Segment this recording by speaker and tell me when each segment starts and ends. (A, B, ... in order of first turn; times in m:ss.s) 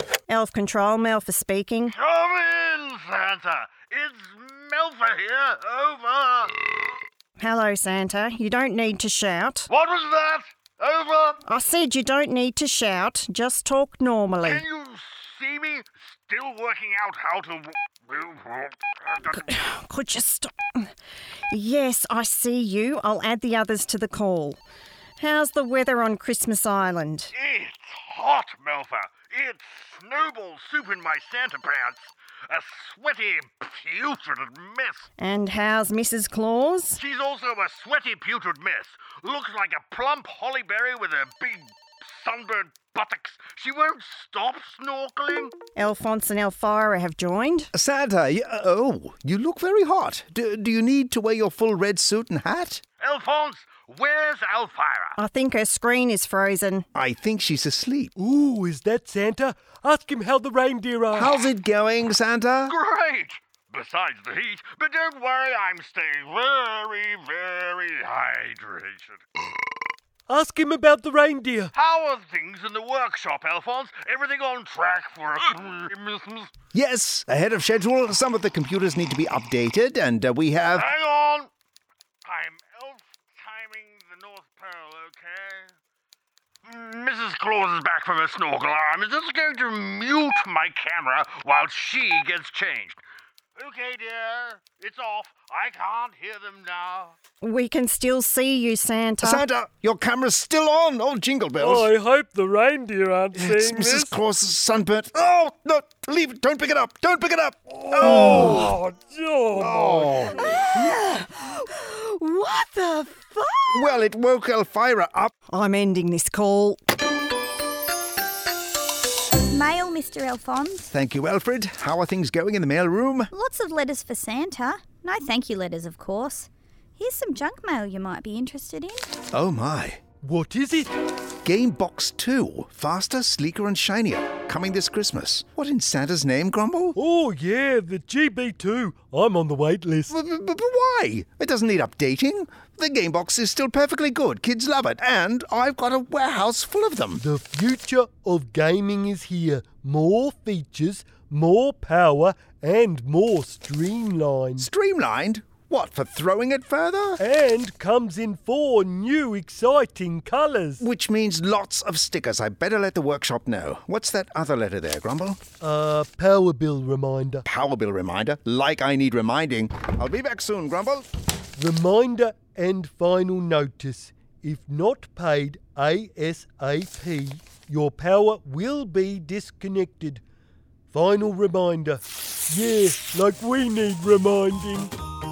0:00.3-0:02.0 A
0:02.0-0:06.8 B
0:07.4-0:09.7 A
0:09.7-0:11.4 B
0:11.4-0:14.6 A
0:14.4-0:19.4 B
0:19.3-0:20.9 A
0:21.5-0:24.6 A
0:25.2-0:27.3 A
0:27.4-0:35.1 B
0:35.2-0:37.0 A
0:37.0-0:45.5 B
0:45.8-0:47.7 A
0:47.7-0:52.8 C
0:53.0-0:55.2 B
0:55.2-0:56.9 A
0:56.9-0:58.1 C
0:58.2-1:01.3 D
1:01.1-1:02.7 C
1:02.7-1:09.2 B
1:10.3-1:11.7 D
1:11.7-1:16.5 B
1:16.7-1:20.9 C
1:20.7-1:21.5 B
1:22.2-1:25.7 B
1:26.6-1:33.0 B
1:33.6-1:37.1 B
1:37.4-1:39.4 A
1:39.2-1:41.9 C
1:41.6-1:44.1 D
1:43.3-1:48.8 C
1:48.0-1:50.3 D
1:48.1-1:48.4 A
1:49.5-1:50.4 C
1:50.4-1:53.8 A
1:53.7-1:55.3 C
1:55.5-1:56.8 A
1:59.5-2:00.8 E
2:00.9-2:03.3 C
2:03.4-2:09.0 E
2:09.3-2:10.0 C
2:10.2-2:10.9 D
2:11.4-2:17.0 C
2:16.9-2:20.1 D
2:20.1-2:27.2 C
2:27.2-2:34.7 D
2:34.6-2:37.2 C
2:37.2-2:40.8 D
2:40.8-2:45.4 C
2:45.6-2:47.4 D
2:47.5-2:51.1 C
2:51.6-3:00.2 D
3:00.9-3:04.9 D